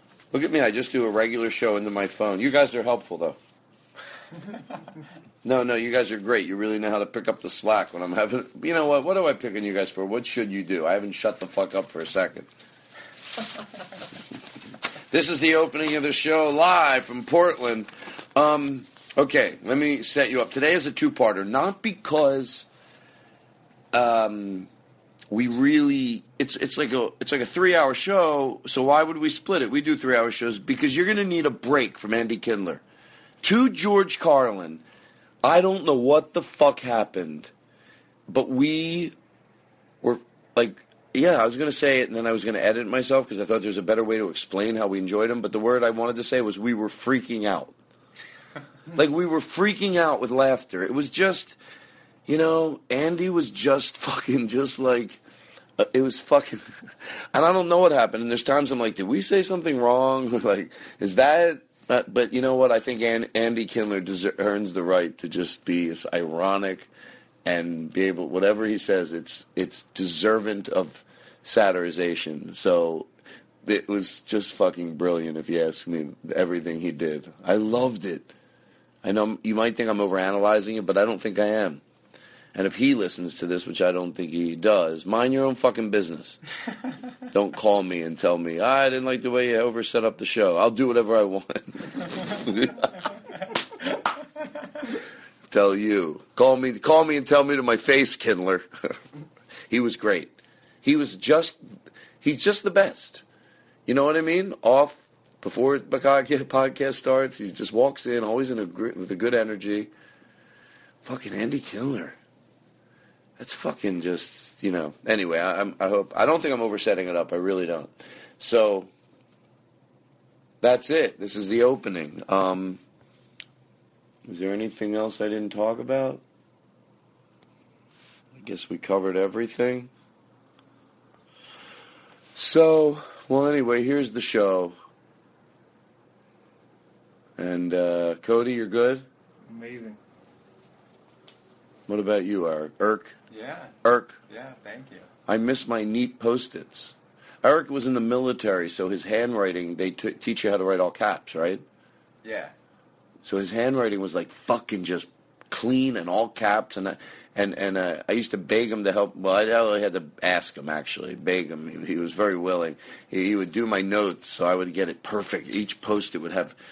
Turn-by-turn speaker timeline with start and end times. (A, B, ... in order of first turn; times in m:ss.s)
0:00.3-0:03.4 A
0:05.4-0:12.5 A
0:15.1-0:22.7 A
0:23.9-0:24.7 A
0:25.3-0:32.8 A
0:33.4-0:34.8 A
0:35.4-0:37.5 A
0:38.3-0:39.1 A
0:40.0-0:47.7 A
0:48.9-0:51.6 A
0:52.2-0:55.2 A
0:55.8-0:56.6 A
0:57.3-1:06.9 A
1:07.4-1:13.1 A
1:13.6-1:18.3 A
1:19.0-1:21.8 A
1:22.5-1:26.4 A
1:27.3-1:32.9 A
1:35.5-1:38.7 A
1:39.7-1:41.6 A
1:42.2-1:43.2 A
1:43.8-1:49.9 A
1:51.0-1:52.2 A
1:53.4-1:58.9 A
2:00.6-2:02.8 A
2:04.2-2:06.2 A
2:08.4-2:09.9 A
2:12.3-2:14.7 A
2:17.4-2:19.0 A
2:19.5-2:20.0 B
2:21.9-2:23.2 A
2:23.3-2:23.7 B
2:23.8-2:24.2 A
2:24.3-2:25.1 B
2:25.2-2:31.6 A
2:32.2-2:32.5 B
2:33.2-2:46.6 A